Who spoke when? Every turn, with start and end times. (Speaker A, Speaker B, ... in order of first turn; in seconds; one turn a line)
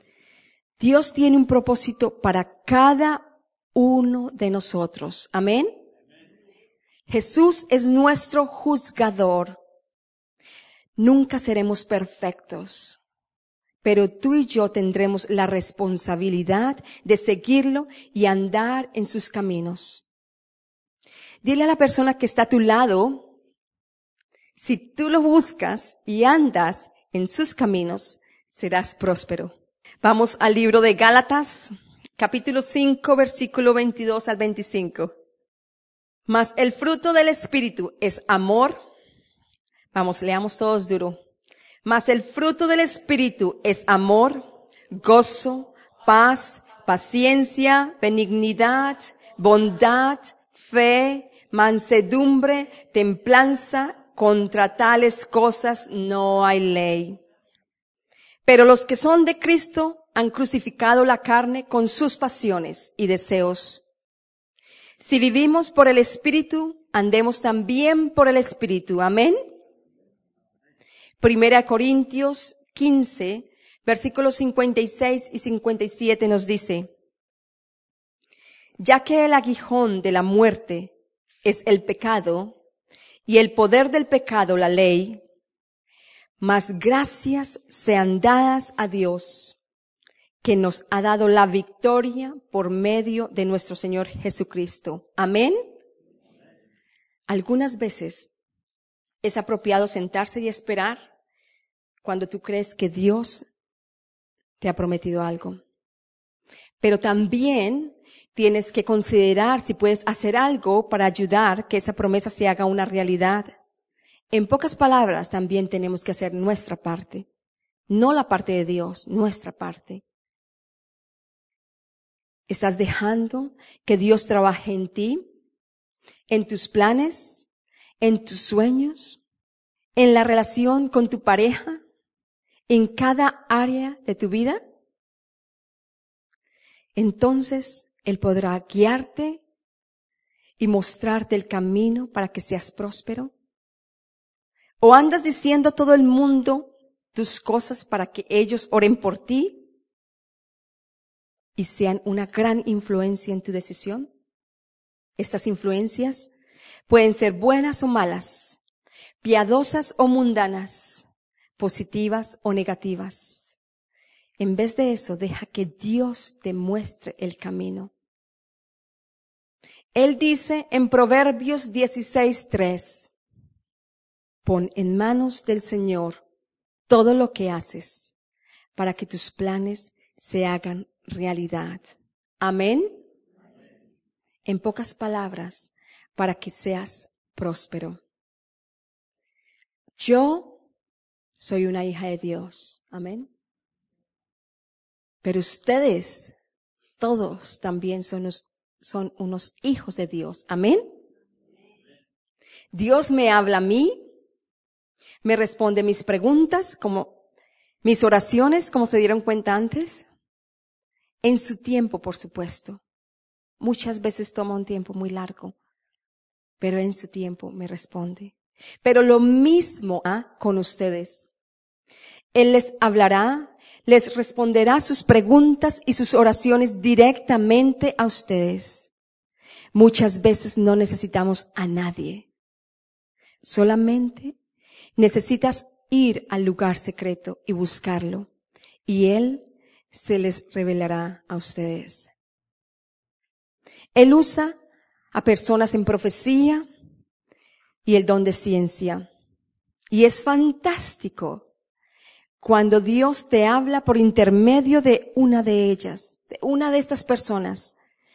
Speaker A: 0.8-5.8
Speaker A: 7.1-9.6
Speaker A: 11.0-13.0
Speaker A: 13.8-20.1
Speaker A: 21.4-23.3
Speaker A: 24.6-35.1
Speaker A: 36.3-38.8
Speaker A: 39.9-41.2
Speaker A: 41.9-57.2
Speaker A: 58.5-63.8
Speaker A: 65.0-69.4
Speaker A: 71.2-76.9
Speaker A: 78.8-80.9
Speaker A: 81.4-82.6
Speaker A: 83.3-85.2
Speaker A: 86.4-89.6
Speaker A: 90.4-95.7
Speaker A: 97.3-98.3
Speaker A: 99.2-101.1
Speaker A: 102.0-103.5
Speaker A: 104.6-105.6
Speaker A: 106.8-113.5
Speaker A: 114.3-117.3
Speaker A: 117.9-120.0
Speaker A: 122.5-125.2
Speaker A: 126.3-127.5
Speaker A: 128.0-129.2
Speaker A: 130.0-131.8
Speaker A: 132.7-134.6
Speaker A: 137.0-139.4
Speaker A: 140.6-143.3
Speaker A: 144.8-149.6
Speaker A: 151.6-154.1
Speaker A: 155.2-156.3
Speaker A: 156.9-158.6
Speaker A: 159.2-161.1
Speaker A: 161.6-163.6
Speaker A: 164.4-167.9
Speaker A: 169.9-173.1
Speaker A: 174.4-176.2
Speaker A: 176.9-178.1
Speaker A: 178.8-183.0
Speaker A: 184.4-188.0
Speaker A: 190.0-190.6
Speaker A: 191.4-193.3
Speaker A: 195.2-196.3
Speaker A: 197.0-200.8
Speaker A: 202.7-204.0
Speaker A: 205.2-207.2
Speaker A: 207.8-210.1
Speaker A: 211.2-212.8
Speaker A: 213.6-215.6
Speaker A: 216.6-221.3
Speaker A: 222.3-228.9
Speaker A: 229.7-232.3
Speaker A: 233.4-234.3
Speaker A: 235.0-238.3
Speaker A: 238.9-242.1
Speaker A: 243.9-244.6
Speaker A: 245.1-246.7
Speaker A: 247.8-249.1
Speaker A: 249.9-251.5
Speaker A: 252.4-257.7